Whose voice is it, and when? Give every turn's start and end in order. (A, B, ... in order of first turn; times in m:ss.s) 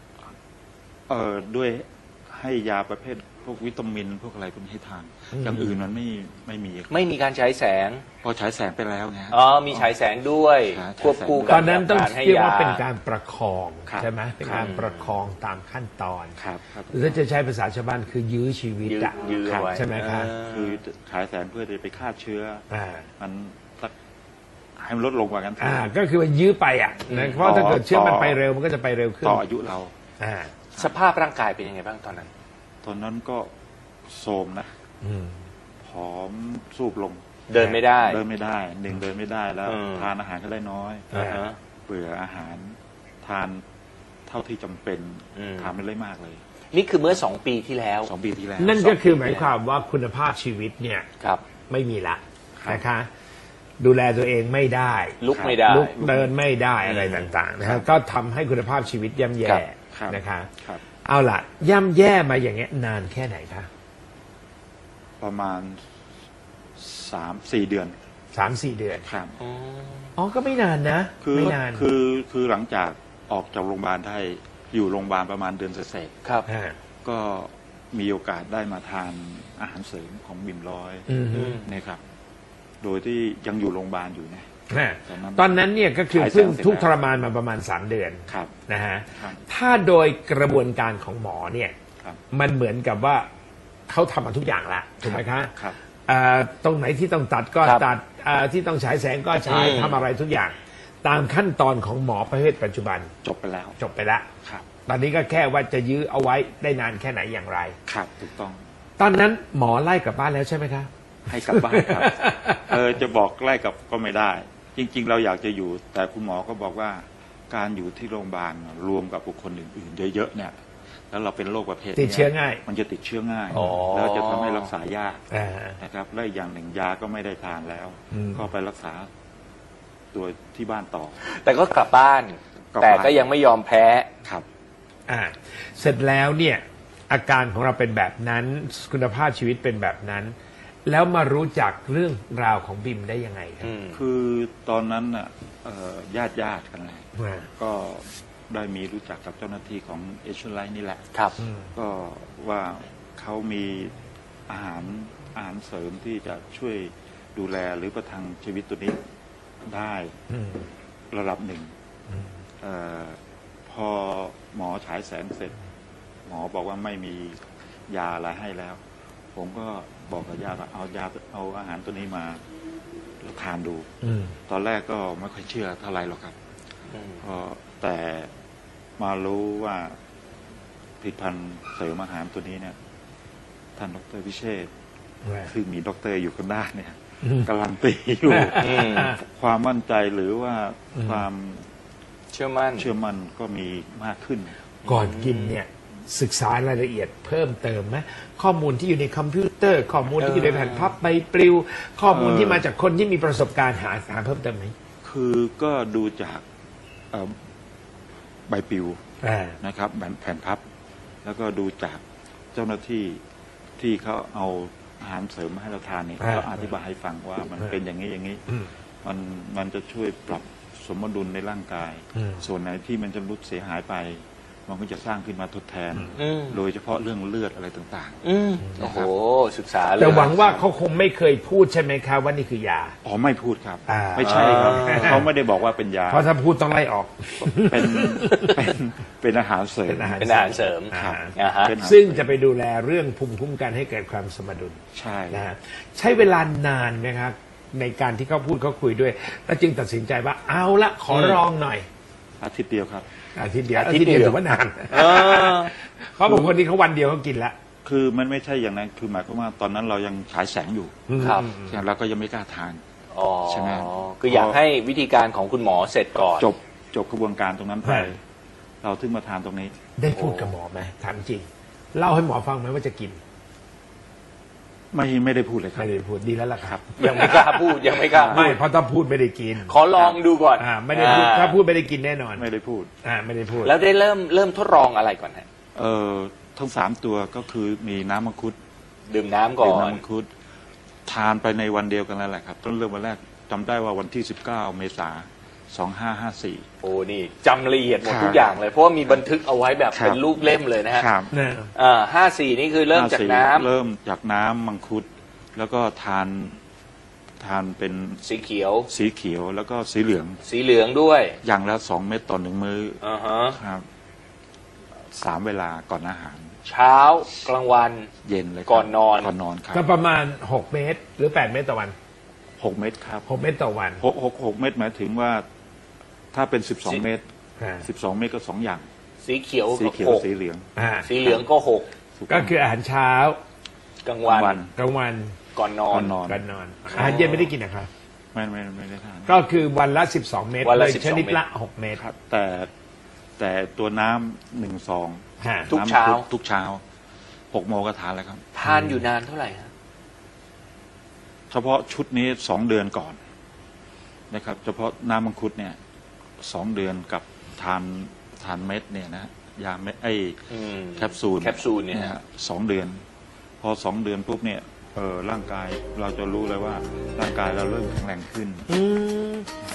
0:01.1-0:07.0 A
0:05.3-0:05.7 B
0:06.9-0:08.0 C
0:08.2-0:09.9 A
0:09.3-0:12.8 C
0:10.7-0:11.6 A
0:11.5-0:16.4 B
0:13.9-0:14.7 A
0:14.5-0:15.1 C
0:16.4-0:17.1 A
0:16.9-0:19.2 B
0:18.8-0:20.8 C
0:19.4-0:19.8 A
0:19.7-0:20.3 B
0:20.4-0:22.6 A
0:22.7-0:23.1 B
0:23.2-0:23.9 A
0:24.8-0:25.9 A
0:25.6-0:29.4 B
0:27.1-0:27.5 C
0:27.4-0:28.4 A
0:29.2-0:29.9 A
0:30.2-0:30.6 B
0:30.8-0:32.3 C
0:32.8-0:33.5 A
0:34.0-0:34.7 A
0:35.0-0:35.4 B
0:35.8-0:37.2 A
0:37.5-0:38.2 C
0:37.5-0:37.8 B
0:38.0-0:41.1 A
0:39.6-0:40.1 C
0:41.1-0:41.4 B
0:41.1-0:41.6 C
0:41.9-0:43.6 A
0:44.3-0:46.4 A
0:45.4-0:45.7 C
0:46.7-0:48.1 C
0:48.0-0:49.0 A
0:48.6-0:51.1 B
0:49.2-0:49.5 C
0:51.7-0:53.1 B
0:52.6-0:52.8 A
0:53.8-1:00.5 B
0:55.2-0:56.0 C
0:55.3-0:56.3 A
0:56.8-0:57.4 C
0:57.6-0:57.9 A
0:59.9-1:00.8 A
1:01.0-1:03.7 B
1:05.2-1:05.8 A
1:06.8-1:08.0 A
1:08.3-1:09.1 B
1:09.0-1:09.4 A
1:09.4-1:10.1 C
1:10.2-1:11.9 B
1:11.2-1:16.1 A
1:16.5-1:16.8 B
1:17.0-1:22.0 A
1:21.1-1:21.6 B
1:21.3-1:21.6 C
1:22.8-1:24.4 A
1:24.7-1:31.7 B
1:25.0-1:25.6 A
1:26.1-1:26.9 A
1:28.3-1:28.6 A
1:29.2-1:29.4 A
1:32.3-1:33.3 B
1:33.9-1:43.1 B
1:35.0-1:35.8 A
1:39.5-1:40.0 C
1:43.2-1:43.8 A
1:43.8-1:44.3 B
1:44.8-1:47.8 B
1:47.8-1:48.6 A
1:49.0-1:50.9 B
1:51.2-2:00.6 A
1:51.5-1:52.8 B
2:01.1-2:05.2 A
2:01.9-2:02.6 B
2:03.5-2:03.9 B
2:03.5-2:04.7 C
2:05.3-2:05.8 B
2:05.8-2:09.1 A
2:08.1-2:08.4 B
2:10.1-2:11.2 A
2:11.2-2:14.1 C
2:12.7-2:13.3 A
2:15.1-2:20.3 B
2:20.8-2:23.7 B
2:23.6-2:24.0 C
2:23.9-2:27.0 A
2:27.2-2:27.5 B
2:27.6-2:31.0 A
2:31.4-2:31.7 B
2:31.7-2:33.9 A
2:34.5-2:39.0 A
2:39.6-2:40.1 A
2:40.3-2:40.7 B
2:41.1-2:41.7 A
2:42.6-2:45.6 A
2:46.3-2:48.8 A
2:49.3-2:52.4 A
2:53.2-2:53.9 A
2:54.0-2:54.4 B
2:54.5-2:56.3 A
2:56.9-2:57.2 C
2:57.2-2:58.3 A
2:59.0-3:00.0 A
3:01.0-3:02.8 A
3:03.8-3:04.7 A
3:05.2-3:05.5 B
3:05.5-3:11.7 A
3:07.2-3:07.5 B
3:08.3-3:09.2 B
3:08.6-3:09.2 C
3:10.9-3:11.2 B
3:12.3-3:12.9 C
3:12.8-3:14.6 A
3:14.8-3:15.6 C
3:14.8-3:24.7 B
3:20.2-3:21.0 C
3:22.1-3:22.7 A
3:25.0-3:26.4 A
3:27.1-3:27.4 A
3:28.5-3:29.0 A
3:29.2-3:29.6 B
3:29.6-3:30.6 A
3:31.2-3:32.0 A
3:32.5-3:33.2 A
3:33.8-3:38.4 A
3:36.2-3:36.7 B
3:39.0-3:48.2 A
3:42.1-3:42.4 B
3:46.2-3:46.6 C
3:48.2-3:50.5 C
3:48.6-3:48.9 B
3:48.8-3:49.1 A
3:50.0-3:53.0 B
3:50.0-3:50.6 A
3:53.0-3:56.3 A
3:53.9-3:55.3 B
3:54.2-3:55.2 C
3:56.1-3:58.6 B
3:57.4-4:00.2 A
3:59.8-4:11.8 B
4:00.2-4:01.8 C
4:00.9-4:02.2 A
4:04.9-4:05.4 A
4:11.1-4:11.4 C
4:12.4-4:13.0 A
4:13.4-4:17.5 B
4:13.7-4:14.4 C
4:14.9-4:15.7 C
4:16.2-4:16.5 A
4:17.8-4:22.8 A
4:21.1-4:21.8 B
4:21.2-4:21.5 C
4:23.1-4:26.5 C
4:23.5-4:24.6 A
4:26.4-4:28.2 A
4:27.8-4:28.1 B
4:28.8-4:29.7 A
4:30.0-4:33.2 B
4:30.1-4:30.5 C
4:34.9-4:35.9 A
4:35.8-4:37.5 B
4:36.6-4:38.5 A
4:37.0-4:38.6 C
4:38.2-4:39.8 B
4:39.6-4:41.6 C
4:40.0-4:40.2 A
4:40.6-4:42.4 B
4:42.3-4:42.9 A
4:43.0-4:43.8 B
4:43.6-4:45.4 C
4:45.7-4:48.6 A
4:49.1-4:50.0 C
4:49.6-4:50.3 A
4:51.0-4:56.6 A
4:56.8-5:01.1 C
4:58.0-4:58.5 A
4:59.9-5:00.2 A
5:00.9-5:01.3 A
5:01.3-5:01.7 B
5:01.7-5:03.7 C
5:02.9-5:06.6 A
5:07.4-5:08.2 A
5:08.2-5:08.9 C
5:08.9-5:10.4 A
5:10.4-5:11.4 C
5:11.4-5:13.0 A
5:13.0-5:13.6 C
5:13.5-5:13.8 A
5:15.1-5:16.5 A
5:16.6-5:18.1 C
5:18.2-5:19.8 A
5:18.7-5:19.3 C
5:19.7-5:21.9 B
5:22.6-5:23.2 A
5:23.2-5:24.0 B
5:24.0-5:25.4 A
5:26.3-5:27.2 A
5:27.6-5:27.9 B
5:27.8-5:28.8 A
5:29.2-5:30.2 C
5:29.7-5:30.6 A
5:30.8-5:31.2 B
5:31.0-5:31.9 C
5:32.2-5:32.5 A
5:32.3-5:33.4 B
5:34.0-5:34.6 C
5:34.2-5:34.7 A
5:34.7-5:35.4 B
5:35.5-5:36.2 C
5:35.9-5:37.2 A
5:36.2-5:37.9 B
5:36.9-5:37.5 C
5:38.3-5:39.3 A
5:39.2-5:42.0 B
5:40.6-5:41.4 C
5:41.9-5:42.7 A
5:43.4-5:46.8 A
5:45.4-5:45.7 B
5:45.7-5:46.2 C
5:47.5-5:48.4 A
5:48.5-5:49.7 C
5:48.6-5:49.0 B
5:51.5-5:53.2 A
5:54.3-5:55.8 A
5:56.4-6:03.0 A
6:00.5-6:02.2 C
6:03.6-6:08.7 A
6:08.7-6:09.5 B